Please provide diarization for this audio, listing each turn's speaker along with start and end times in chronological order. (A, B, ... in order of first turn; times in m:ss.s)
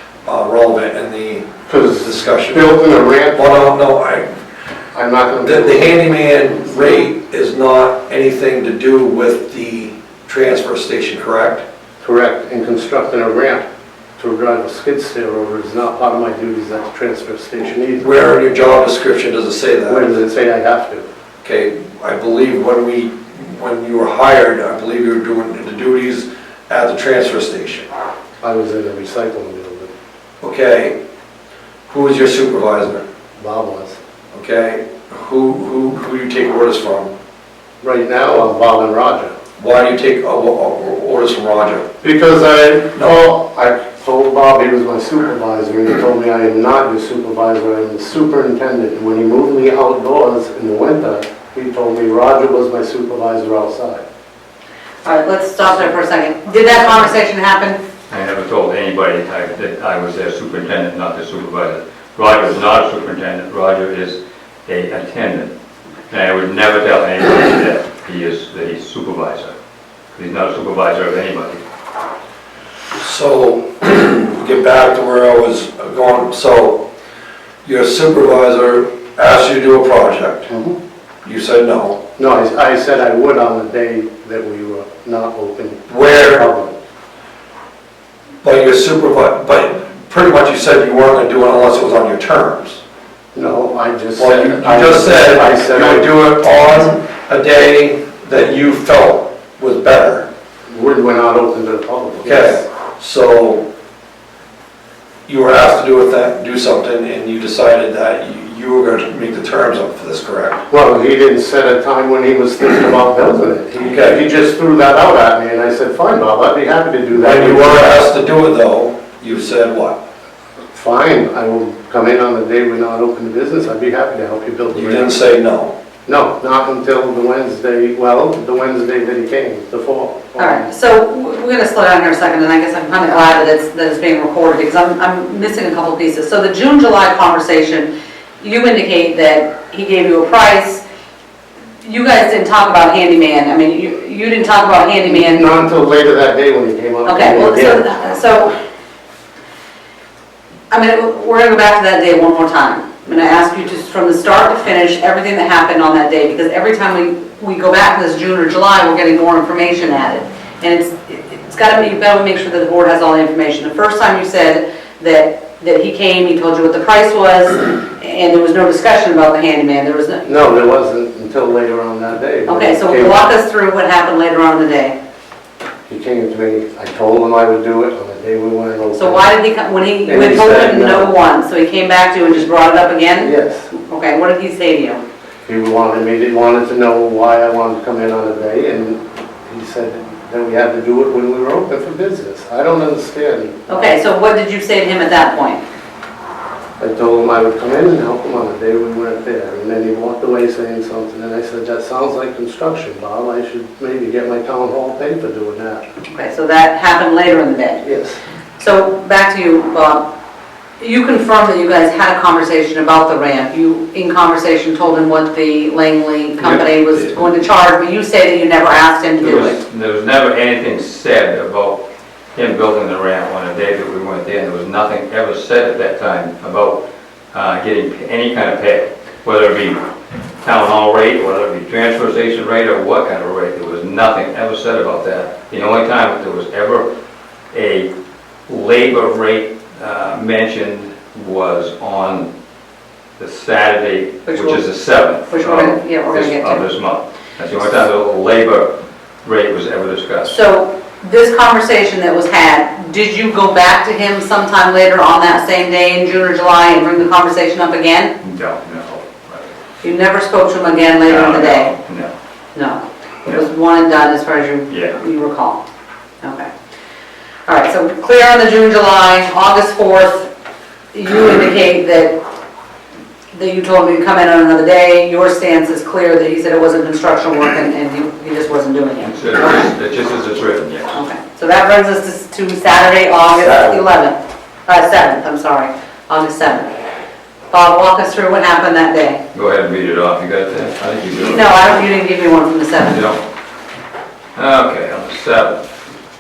0:00.2-0:01.5 A
0:01.7-0:03.5 B
0:02.0-0:02.8 A
0:03.3-0:04.4 A
0:04.9-0:05.9 B
0:05.4-0:11.6 A
0:12.0-0:13.6 B
0:14.2-0:18.1 B
0:18.0-0:20.1 A
0:19.9-0:21.1 B
0:21.4-0:27.9 A
0:28.4-0:29.9 B
0:30.4-0:31.0 A
0:31.9-0:33.0 A
0:33.4-0:34.0 B
0:34.3-0:37.1 A
0:37.8-0:39.3 B
0:39.6-0:41.8 A
0:42.0-0:54.0 B
0:55.0-0:57.8 C
0:58.1-1:05.5 D
1:06.1-1:09.5 D
1:10.1-1:11.6 D
1:13.0-1:16.9 A
1:17.6-1:20.5 A
1:20.5-1:20.8 B
1:21.2-1:22.0 A
1:22.2-1:26.7 B
1:25.9-1:26.5 A
1:28.4-1:32.8 A
1:33.3-1:36.1 B
1:34.2-1:40.3 A
1:40.7-1:42.6 B
1:42.2-1:43.7 A
1:45.3-1:50.6 A
1:50.7-1:57.9 B
1:53.8-1:54.2 A
1:57.1-2:00.0 A
2:00.7-2:05.1 B
2:04.7-2:05.7 A
2:06.1-2:10.7 B
2:10.4-2:17.9 C
2:18.4-2:20.8 C
2:21.8-2:25.4 C
2:25.0-2:28.0 B
2:27.0-2:28.5 C
2:30.7-2:50.4 C
2:50.2-2:53.3 B
2:52.5-2:55.0 C
2:55.9-2:59.2 B
2:59.0-3:05.0 C
3:00.0-3:01.1 B
3:03.2-3:03.7 B
3:05.4-3:13.9 B
3:13.7-3:15.6 C
3:16.8-3:25.8 B
3:26.1-3:27.8 C
3:27.8-3:28.2 B
3:28.6-3:30.1 C
3:30.8-3:39.6 C
3:36.4-3:37.2 D
3:39.2-3:41.8 D
3:42.3-3:49.8 D
3:50.4-3:56.9 D
3:57.5-3:57.9 D
3:58.5-4:02.3 D
4:03.2-4:10.4 D
4:04.3-4:04.6 C
4:05.2-4:06.7 C
4:10.2-4:18.1 C
4:18.2-4:19.6 D
4:19.8-4:21.7 C
4:21.0-4:22.1 D
4:22.6-4:25.6 C
4:24.7-4:25.0 D
4:26.2-4:26.5 C
4:27.5-4:30.3 C
4:30.9-4:32.2 C
4:33.3-4:39.6 C
4:39.0-4:41.0 D
4:40.9-4:46.7 C
4:47.5-4:49.2 C
4:49.3-4:51.6 D
4:51.2-4:53.0 C
4:52.9-4:53.2 D
4:54.4-4:55.6 D